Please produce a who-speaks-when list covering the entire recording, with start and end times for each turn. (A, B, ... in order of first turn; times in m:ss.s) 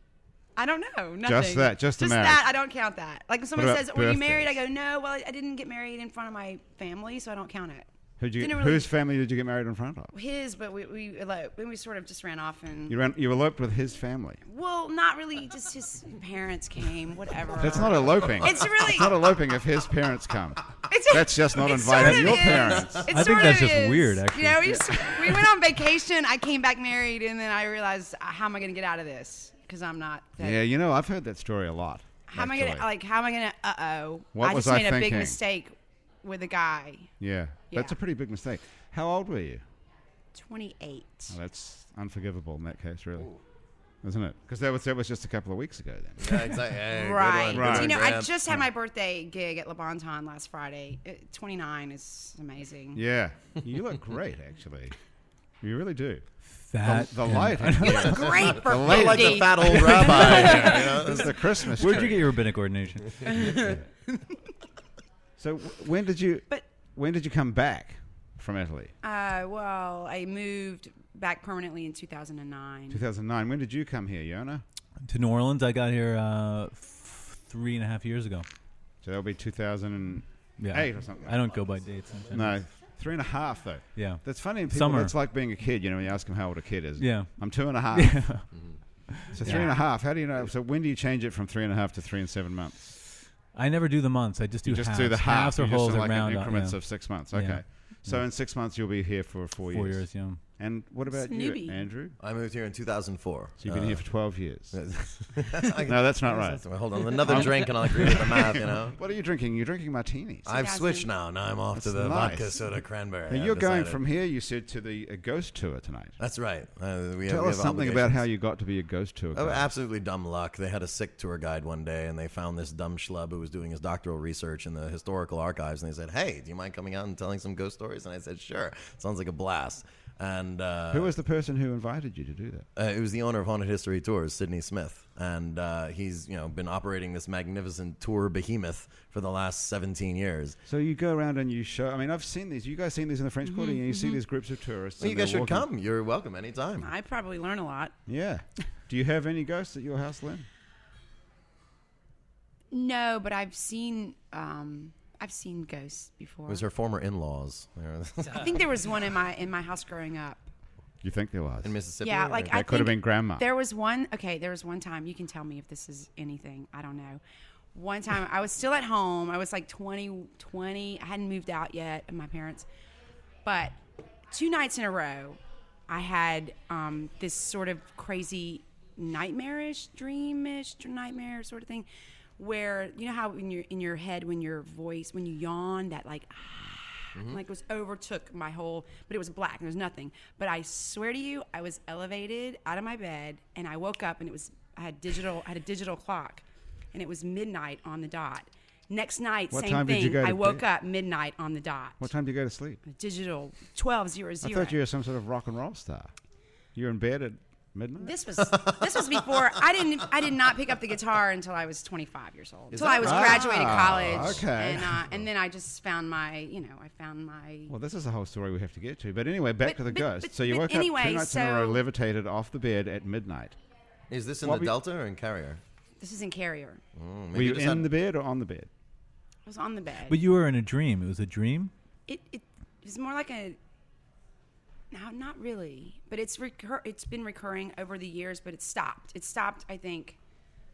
0:00.6-0:08.9 A
0:01.2-0:02.4 B
0:03.6-0:04.6 B
0:08.2-0:10.1 B
0:10.1-0:13.0 A
0:12.9-0:14.4 B
0:14.5-0:19.2 A
0:17.6-0:23.5 B
0:20.9-0:30.6 A
0:21.9-0:24.9 C
0:24.6-0:25.0 B
0:30.4-0:32.9 B
0:32.3-0:37.1 A
0:34.4-0:35.4 B
0:37.2-0:39.6 B
0:40.3-0:41.4 A
0:41.3-0:43.3 B
0:44.0-0:46.4 B
0:46.2-0:48.6 D
0:46.9-0:53.0 A
0:47.5-0:48.0 B
0:52.9-0:55.0 B
0:55.6-0:56.2 B
0:56.5-0:58.5 C
0:56.8-0:59.7 B
0:57.8-1:00.7 A
0:58.5-1:01.3 D
0:59.6-1:03.7 C
1:00.3-1:02.3 B
1:03.2-1:04.4 A
1:05.4-1:08.9 B
1:09.0-1:13.0 A
1:12.9-1:14.6 B
1:15.0-1:18.5 C
1:19.0-1:21.5 B
1:20.6-1:22.7 C
1:22.3-1:28.4 B
1:24.0-1:25.2 C
1:27.0-1:28.5 C
1:28.5-1:28.8 D
1:29.1-1:29.7 C
1:29.3-1:32.8 B
1:29.5-1:29.7 A
1:33.5-1:38.2 C
1:34.6-1:42.2 B
1:39.7-1:40.4 C
1:41.1-1:41.9 A
1:42.2-1:44.0 D
1:43.6-1:50.5 B
1:44.7-1:49.0 D
1:50.5-1:54.0 D
1:50.5-1:51.1 A
1:51.8-1:52.7 B
1:53.3-1:56.2 B
1:56.2-1:58.1 D
1:57.3-1:59.7 B
1:59.4-2:11.1 D
2:10.9-2:12.7 B
2:12.8-2:20.6 D
2:20.7-2:25.7 B
2:23.4-2:24.2 A
2:25.0-2:26.9 D
2:26.8-2:28.0 A
2:28.1-2:30.5 B
2:32.7-2:36.6 A
2:36.5-2:38.6 D
2:38.3-2:40.5 A
2:41.0-2:41.8 B
2:41.6-2:42.6 D
2:42.0-2:47.2 A
2:42.4-2:43.5 B
2:47.7-2:52.7 A
2:53.4-2:53.8 A
2:54.3-3:22.1 A
3:07.2-3:07.4 D
3:19.5-3:20.6 B
3:22.0-3:22.8 B
3:22.9-3:24.8 A
3:24.4-3:26.1 B
3:26.8-3:28.2 B
3:28.0-3:37.7 A
3:28.5-3:29.5 D
3:32.7-3:34.4 D
3:33.0-3:35.1 B
3:37.7-3:43.6 B
3:39.6-3:41.8 A
3:44.1-3:45.6 D
3:44.4-3:44.8 B
3:46.0-3:46.8 A
3:47.0-3:47.9 D
3:47.3-3:48.7 B
3:49.4-3:50.2 A
3:50.1-3:51.7 C
3:52.1-3:53.6 A
3:54.9-4:00.2 A